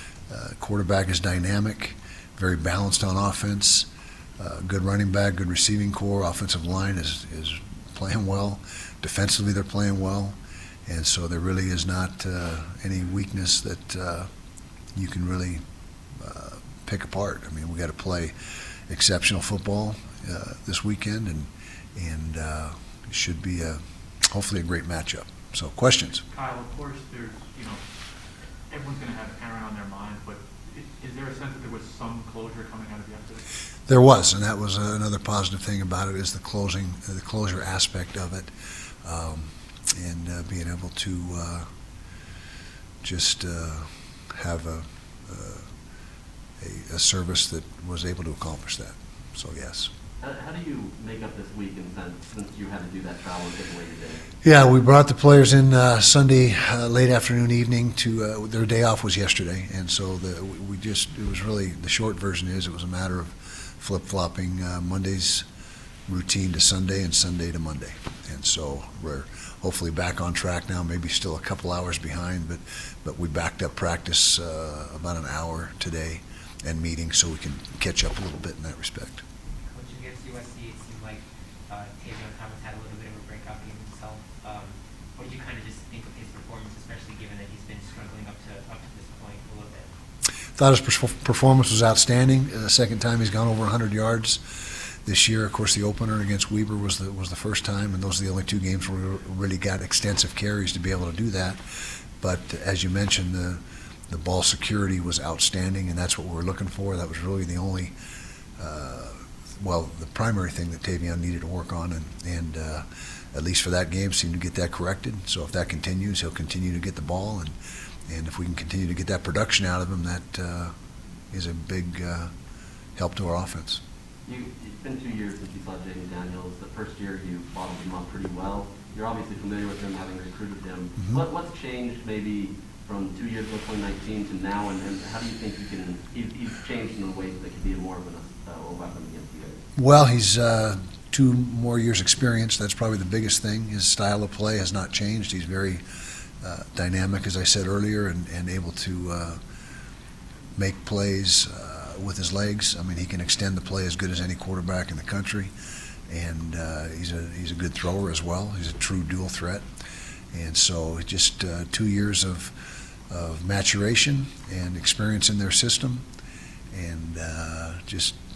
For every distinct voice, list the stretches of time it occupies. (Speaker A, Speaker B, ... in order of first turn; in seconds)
Speaker A: 0.3-14.3, 14.9-18.4, 18.9-26.2, 33.9-38.5, 39.0-41.7, 43.0-45.7, 46.6-49.9, 54.4-65.5, 66.1-79.2, 90.5-101.6, 102.2-108.0, 108.6-117.5, 118.1-120.8, 121.3-122.3, 123.0-123.8, 131.0-131.2, 139.8-145.8, 146.4-149.4, 150.6-155.5, 156.1-159.7, 160.3-166.1, 166.7-168.2
Speaker B: 26.3-27.8, 28.7-33.5
Speaker C: 50.2-54.3, 124.2-139.6
Speaker D: 79.6-89.9